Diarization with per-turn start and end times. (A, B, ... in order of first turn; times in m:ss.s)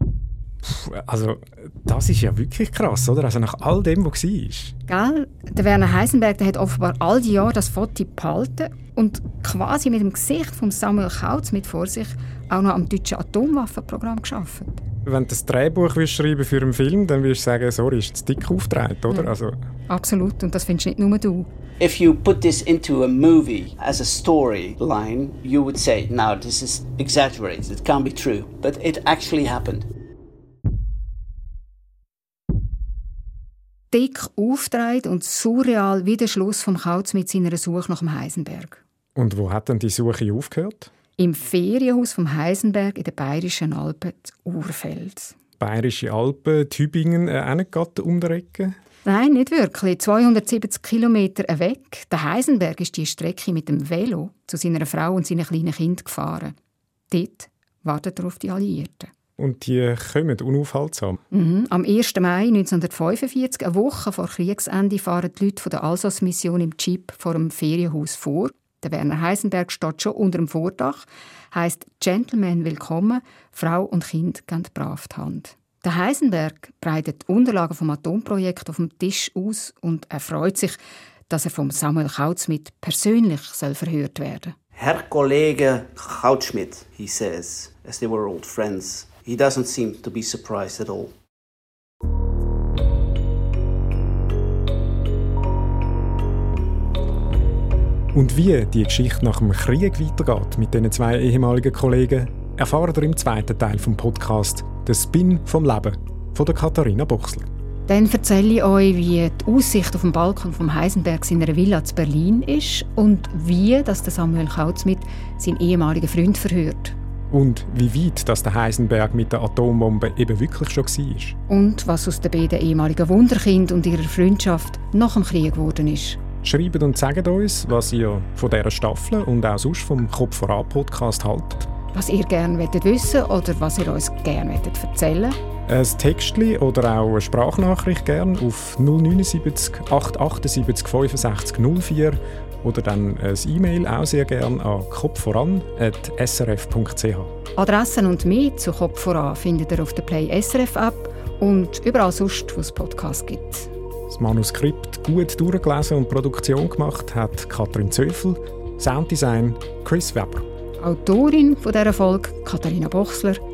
0:00.6-0:04.8 A
0:04.9-0:14.8 B
0:15.0-0:19.6 A
0:19.9-0:21.5 B
0:21.8-0:29.9 C
0:33.9-0:38.8 B
0:39.2-0:40.9 A
0:41.2-0:45.4 B
0:45.6-0:48.8 A
0:49.0-0:56.6 B
0:57.1-0:59.1 B
0:59.4-1:01.2 A
1:01.3-1:24.6 B
1:24.8-1:31.2 C
1:38.1-1:47.5 A
1:47.9-1:57.0 B
1:57.3-2:01.4 A
2:01.5-2:06.2 B
2:06.4-2:11.7 A
2:11.9-2:15.4 B
2:15.7-2:27.3 A
2:27.6-2:33.7 B
2:34.1-2:40.5 A
2:40.8-2:43.4 B